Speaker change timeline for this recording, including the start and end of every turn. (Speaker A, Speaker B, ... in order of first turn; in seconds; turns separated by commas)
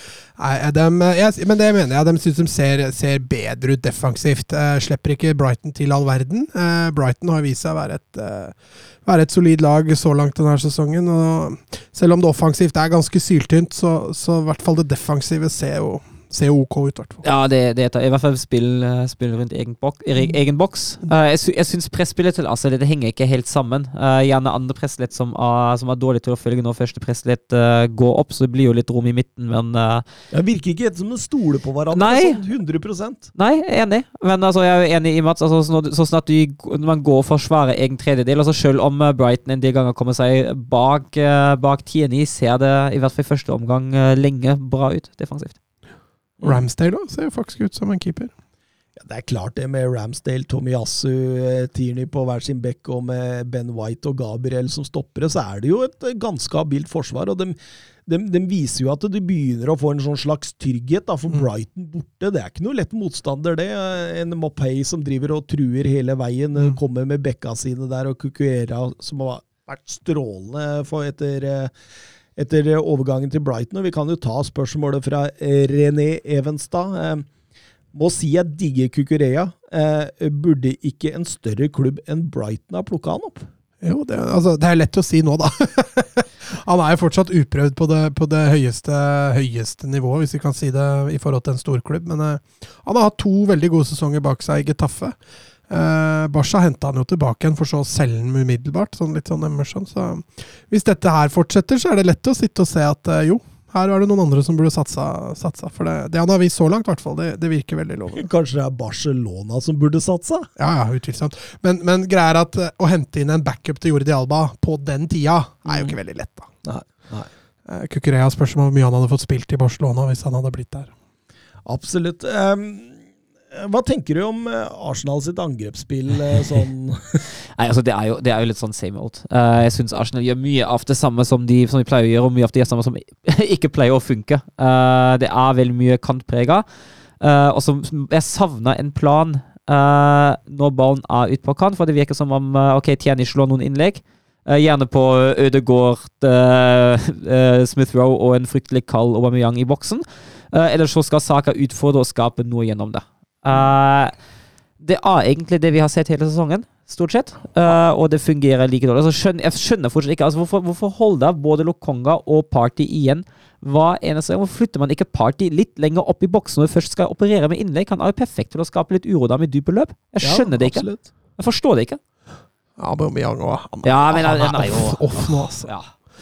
Speaker A: 0.3-17.2, Speaker B: 17.2-30.0, Speaker C: 30.3-33.3, Speaker B: 31.9-32.4, Speaker B: 33.4-45.5, Speaker A: 46.4-48.3, Speaker C: 49.0-71.7, Speaker C: 72.4-77.3, Speaker C: 77.9-83.5, Speaker A: 83.8-95.2, Speaker A: 95.7-108.3, Speaker C: 108.1-110.5, Speaker A: 110.6-116.5, Speaker C: 115.7-115.9, Speaker C: 116.6-117.3, Speaker A: 117.7-120.9, Speaker C: 121.7-123.0, Speaker C: 123.5-127.2, Speaker B: 127.5-136.6, Speaker B: 137.2-154.1, Speaker B: 154.8-172.0, Speaker C: 170.2-171.1, Speaker A: 172.8-175.7, Speaker B: 173.8-175.9